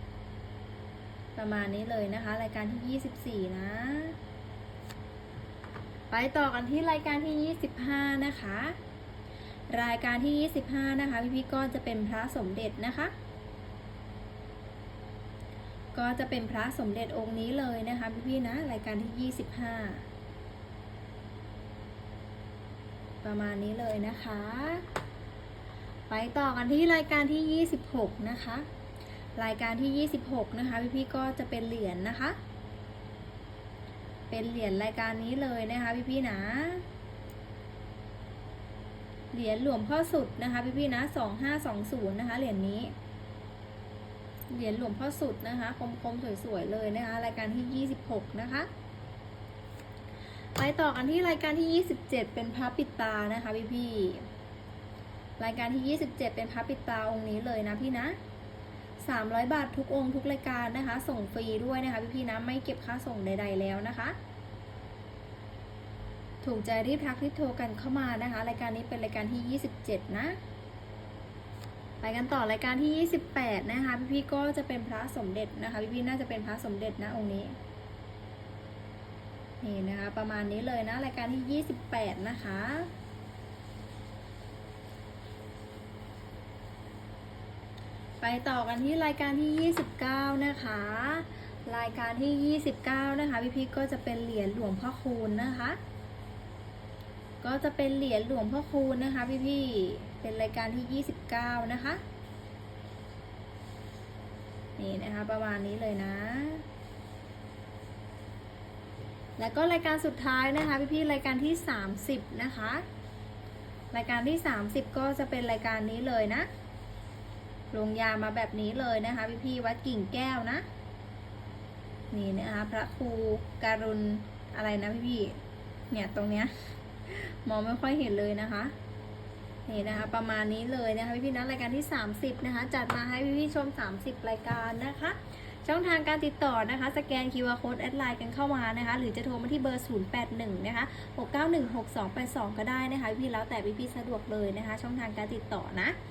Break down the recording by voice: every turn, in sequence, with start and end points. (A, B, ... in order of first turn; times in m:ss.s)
0:01.4-0:04.2 A
0:06.1-0:08.8 A
0:09.7-0:13.1 A
0:15.9-0:20.1 A
0:23.2-0:24.9 A
0:26.1-0:28.7 A
0:29.4-0:32.4 A
0:34.3-0:36.8 A
0:39.3-0:42.9 A
0:44.5-0:48.7 A
0:50.6-0:54.3 A
0:55.4-0:58.2 A
0:59.0-1:04.2 A
1:06.4-1:10.4 A
1:12.0-1:17.6 A
1:19.6-1:22.9 A
1:28.2-1:35.8 A
1:37.4-1:42.0 A
1:44.8-1:46.6 A
1:49.4-1:52.8 A
1:53.9-1:56.5 A
1:57.7-2:00.6 A
2:02.1-2:06.5 A
2:07.1-2:08.7 A
2:09.7-2:26.0 A